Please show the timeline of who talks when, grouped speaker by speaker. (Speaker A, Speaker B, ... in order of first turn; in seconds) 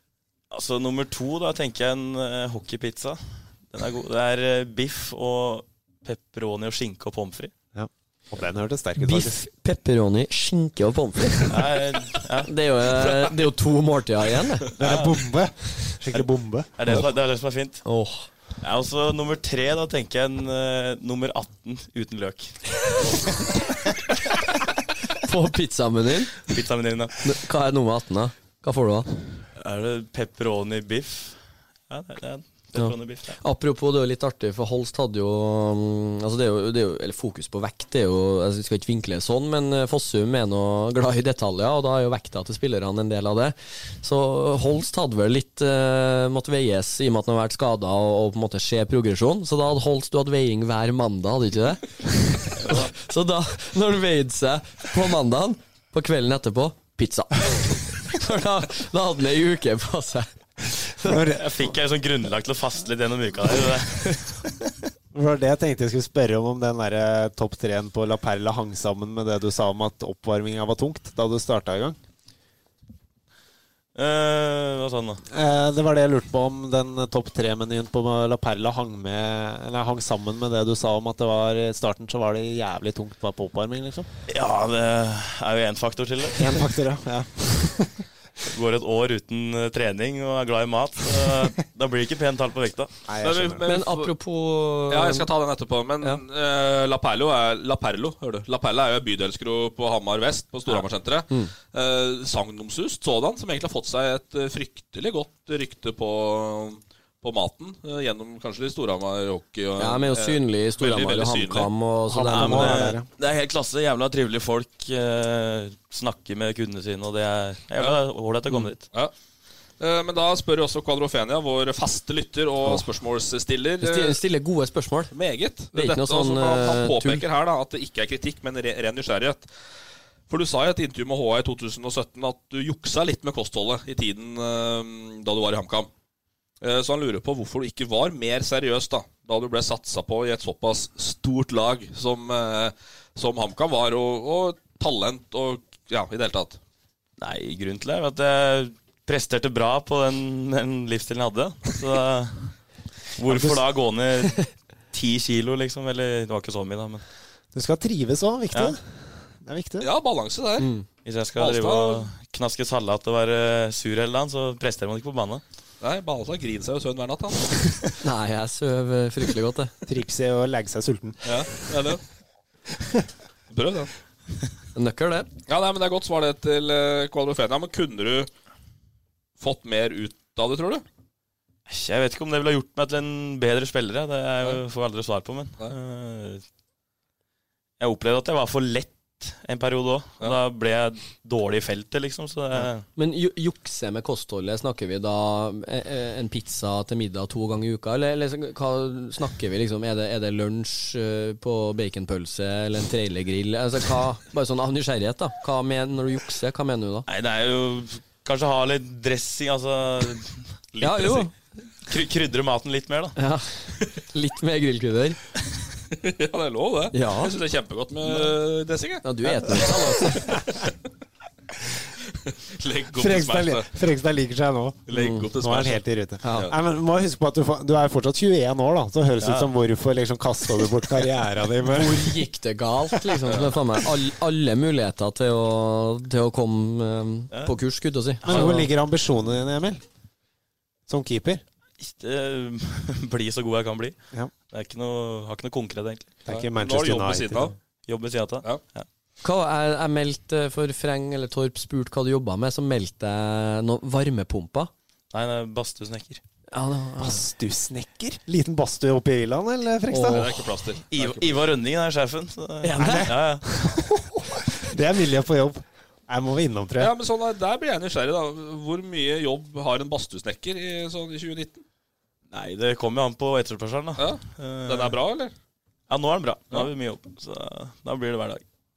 Speaker A: 0.5-7.5, 11.5-12.5, 14.8-15.2, 16.8-17.8, 18.6-23.0, 26.5-27.3, 29.6-31.4, 31.9-33.4, 52.6-52.9, 61.1-64.5, 74.0-75.2, 84.3-86.7, 88.4-92.9, 112.3-118.9, 147.2-152.6, 153.2-157.0, 158.5-158.8, 161.1-165.4, 181.7-186.4, 187.8-192.8, 207.1-210.5, 211.9-213.2, 229.2-229.5, 238.2-238.5, 241.8-244.0, 244.5-246.1, 247.9-248.9, 255.1-256.2, 260.9-263.5, 272.3-275.0, 275.9-278.4
Speaker B: 7.7-9.4, 14.8-17.0, 61.0-61.4, 65.1-72.0, 75.3-84.1, 86.3-88.0, 93.1-93.7, 112.1-113.1, 157.5-159.9, 169.9-172.0, 223.0-232.2, 238.2-239.8, 240.9-241.4, 246.3-247.5, 257.0-260.4, 262.8-266.9
Speaker C: 9.0-11.5, 12.5-14.7, 17.9-18.3, 25.2-26.4, 27.2-29.1, 32.8-60.3, 93.7-95.3, 109.8-112.9, 123.8-125.1, 125.7-127.2, 160.6-160.9, 168.0-169.7, 174.8-175.3, 193.0-207.1, 210.8-211.3, 213.2-215.2, 216.9-217.3, 219.0-220.3, 224.9-225.3, 226.2-226.5, 231.7-238.7, 249.2-254.7, 256.5-257.2, 259.9-260.3, 262.6-263.1
Speaker D: 93.2-94.1, 94.9-111.7, 119.8-124.2, 125.1-129.5, 130.3-135.9, 136.6-146.6, 159.8-160.7, 161.4-162.1, 165.8-167.8, 171.2-172.0, 173.5-173.9, 175.5-178.3, 179.4-180.8, 210.8-211.2, 215.9-220.7, 222.4-223.7, 224.9-226.5, 233.2-233.6, 246.3-247.5, 260.0-261.4, 266.8-271.6, 274.0-275.3